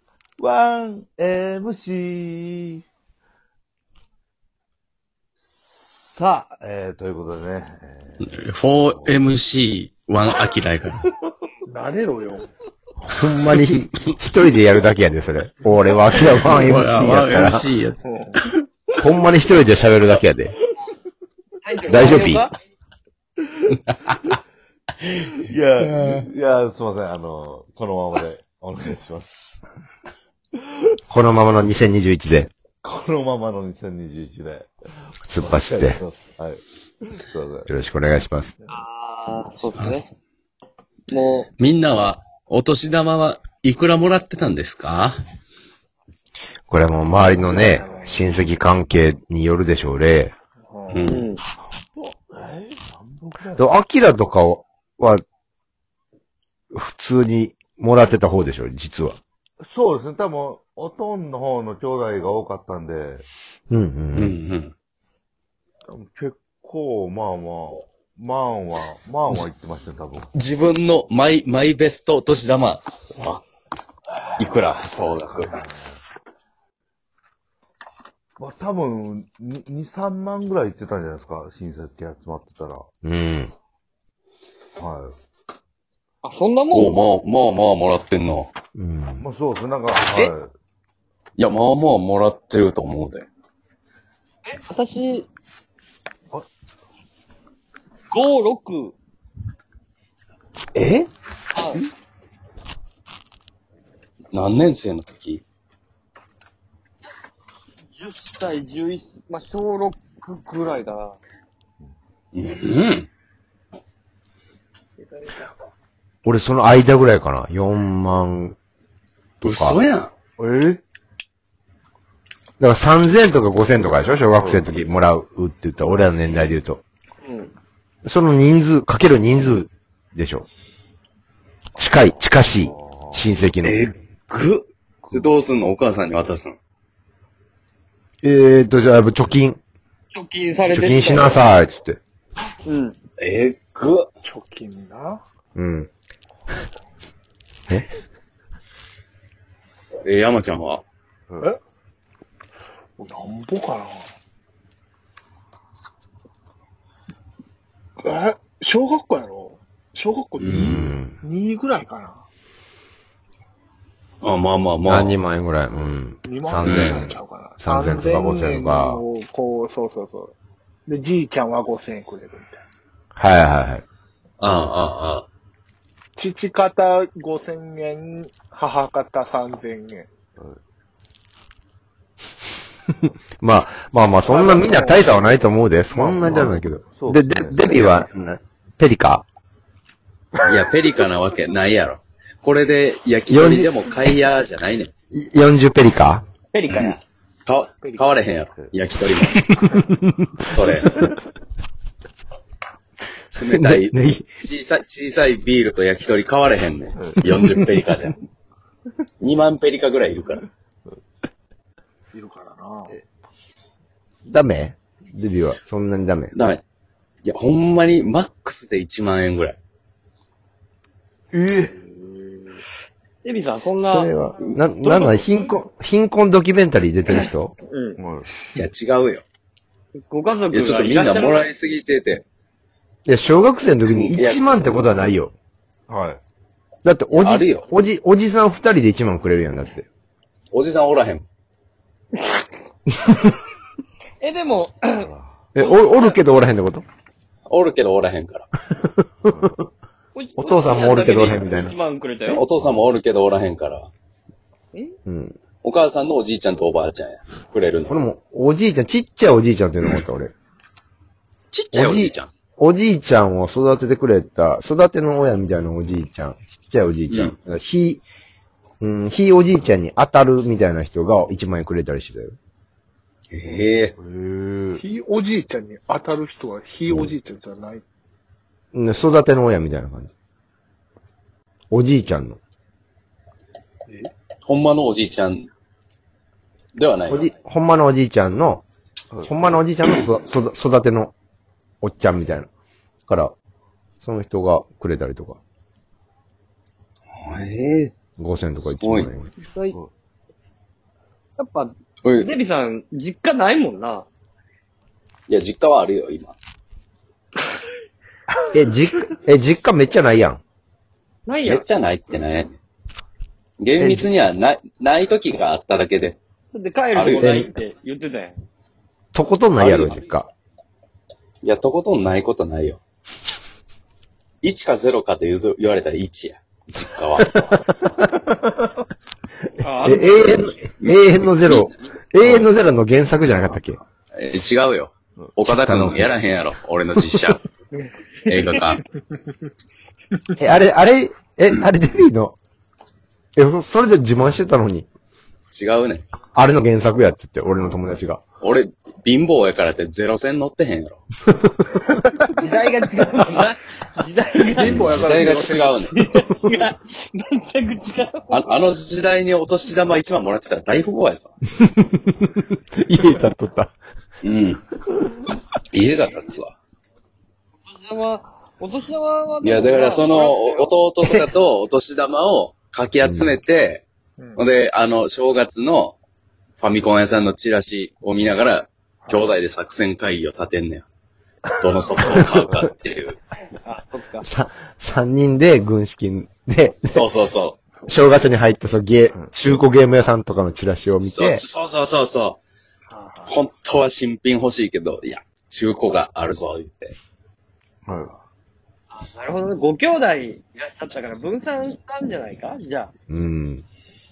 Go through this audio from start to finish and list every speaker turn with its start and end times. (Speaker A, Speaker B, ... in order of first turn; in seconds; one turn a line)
Speaker A: 0.4-2.8
Speaker A: 6.0-9.2
Speaker B: 8.2-11.1
Speaker C: 11.7-12.5
Speaker D: 13.1-17.7
Speaker B: 16.1-18.4
Speaker C: 18.0-18.4
Speaker D: 19.0-20.5
Speaker E: 21.6-22.5
Speaker D: 21.9-22.4
Speaker B: 23.7-24.3
Speaker A: 25.4-29.6
Speaker B: 25.8-26.2
Speaker D: 31.1-32.5
Speaker A: 32.8-34.7
Speaker D: 35.3-36.0
Speaker A: 35.4-37.7
Speaker D: 37.7-38.5
Speaker E: 38.7-40.1
Speaker B: 39.6-40.1
Speaker E: 41.1-41.5
Speaker B: 41.6-45.1
Speaker D: 46.7-50.3
Speaker C: 47.3-48.2
Speaker C: 50.7-51.0
Speaker B: 50.9-51.3
Speaker E: 51.1-51.4
Speaker A: 51.6-53.7
Speaker D: 53.6-55.2
Speaker D: 56.7-59.2
Speaker A: 59.6-63.2
Speaker D: 63.7-64.3
Speaker B: 64.1-64.7
Speaker A: 65.9-70.3
Speaker B: 70.3-73.4
Speaker B: 74.4-75.6
Speaker A: 75.4-76.0
Speaker A: 78.4-82.9
Speaker D: 83.0-83.5
Speaker A: 84.8-85.2
Speaker E: 86.2-87.0
Speaker B: 86.7-88.5
Speaker D: 88.8-89.2
Speaker A: 89.2-90.5
Speaker B: 90.0-90.3
Speaker B: 91.4-93.3
Speaker E: 94.5-95.2
Speaker E: 98.1-98.9
Speaker B: 100.7-101.1
Speaker E: 101.5-101.8
Speaker B: 104.3-105.4
Speaker E: 108.0-111.2
Speaker B: 112.3-113.1
Speaker E: 115.2-115.4
Speaker D: 116.2-118.6
Speaker D: 119.4-119.8
Speaker B: 119.4-120.1
Speaker A: 120.4-120.8
Speaker D: 122.6-126.8
Speaker A: 124.1-124.7
Speaker E: 127.2-127.5
Speaker D: 128.0-130.4
Speaker D: 131.8-133.9
Speaker A: 132.7-133.2
Speaker B: 133.6-136.6
Speaker D: 138.2-139.6
Speaker E: 140.1-141.4
Speaker D: 140.7-142.0
Speaker E: 142.6-142.9
Speaker B: 143.2-144.1
Speaker C: 144.2-145.2
Speaker D: 145.6-145.9
Speaker B: 150.0-150.8
Speaker C: 153.0-154.1
Speaker C: 158.0-160.6
Speaker B: 160.4-160.9
Speaker D: 160.5-161.2
Speaker C: 161.2-162.2
Speaker B: 164.2-165.2
Speaker D: 164.8-169.0
Speaker C: 166.2-170.3
Speaker B: 166.6-167.1
Speaker C: 170.8-172.6
Speaker D: 173.2-173.8
Speaker B: 174.4-175.2
Speaker C: 176.2-180.1
Speaker D: 183.4-189.2
Speaker C: 184.2-185.0
Speaker A: 185.9-187.8
Speaker B: 190.4-194.9
Speaker D: 193.3-194.1
Speaker D: 195.1-196.2
Speaker E: 196.5-196.9
Speaker B: 196.7-199.5
Speaker D: 199.6-201.1
Speaker B: 200.4-201.1
Speaker B: 203.3-208.2
Speaker D: 203.4-204.4
Speaker B: 209.2-210.4
Speaker C: 212.1-212.9
Speaker D: 214.3-216.3
Speaker B: 216.3-216.6
Speaker B: 217.2-219.6
Speaker A: 221.3-221.7
Speaker E: 223.2-224.1
Speaker D: 223.8-227.5
Speaker E: 224.8-225.3
Speaker E: 227.1-228.0
Speaker A: 228.0-228.3
Speaker B: 228.5-229.2
Speaker E: 229.9-231.5
Speaker B: 230.5-232.2
Speaker D: 233.1-235.3
Speaker B: 233.8-234.7
Speaker A: 235.9-236.2
Speaker D: 236.8-239.9
Speaker B: 237.1-237.7
Speaker B: 240.5-241.2
Speaker E: 244.2-246.2
Speaker A: 245.0-245.4
Speaker D: 245.5-246.8
Speaker B: 247.5-248.5
Speaker D: 248.7-249.5
Speaker E: 250.1-252.4
Speaker D: 250.4-251.8
Speaker B: 252.3-253.9
Speaker D: 255.1-255.3
Speaker B: 255.6-257.9
Speaker D: 257.9-260.3
Speaker B: 261.5-262.3
Speaker D: 261.7-268.0
Speaker B: 267.1-267.3
Speaker D: 268.8-272.4
Speaker B: 273.3-273.9
Speaker A: 274.0-274.8
Speaker C: 274.8-277.8
Speaker D: 276.9-277.1
Speaker D: 278.7-280.1
Speaker D: 281.7-282.4
Speaker B: 284.4-285.5
Speaker B: 286.7-287.3
Speaker D: 287.1-288.6
Speaker D: 289.2-291.1
Speaker D: 291.8-292.5
Speaker D: 293.1-293.3
Speaker D: 294.0-295.4
Speaker B: 297.1-297.9
Speaker D: 298.2-299.3
Speaker B: 298.6-299.1
Speaker E: 299.4-299.8
Speaker E: 301.4-304.1
Speaker B: 302.0-302.3
Speaker B: 305.3-306.4
Speaker D: 308.5-310.4
Speaker E: 311.3-311.6
Speaker B: 311.4-312.6
Speaker B: 313.6-316.2
Speaker D: 313.8-314.1
Speaker E: 316.5-318.4
Speaker B: 316.9-317.5
Speaker D: 319.1-320.3
Speaker B: 319.6-320.0
Speaker B: 321.4-322.8
Speaker B: 324.4-327.6
Speaker D: 327.3-328.6
Speaker E: 329.6-330.4
Speaker D: 329.8-333.8
Speaker B: 330.8-331.7
Speaker B: 334.1-337.5
Speaker D: 335.5-336.1
Speaker B: 338.2-338.8
Speaker D: 340.4-342.3
Speaker D: 343.4-344.9
Speaker B: 345.5-346.0
Speaker D: 346.4-348.2
Speaker B: 348.4-351.0
Speaker D: 351.3-351.8
Speaker E: 352.3-354.9
Speaker C: 354.4-355.9
Speaker B: 354.6-356.0
Speaker E: 355.9-358.6
Speaker B: 358.3-361.3
Speaker D: 361.6-363.8
Speaker B: 364.2-364.6
Speaker B: 365.7-366.5
Speaker E: 367.7-370.7
Speaker B: 369.4-375.9
Speaker D: 373.0-373.4
Speaker C: 374.2-374.4
Speaker B: 376.6-380.9
Speaker B: 381.5-383.2
Speaker E: 383.6-384.2
Speaker D: 384.2-387.1
Speaker B: 386.8-387.6
Speaker D: 387.9-391.4
Speaker B: 391.0-392.4
Speaker E: 392.9-393.3
Speaker B: 393.2-396.9
Speaker A: 397.8-398.2
Speaker E: 399.0-402.9
Speaker D: 403.1-403.6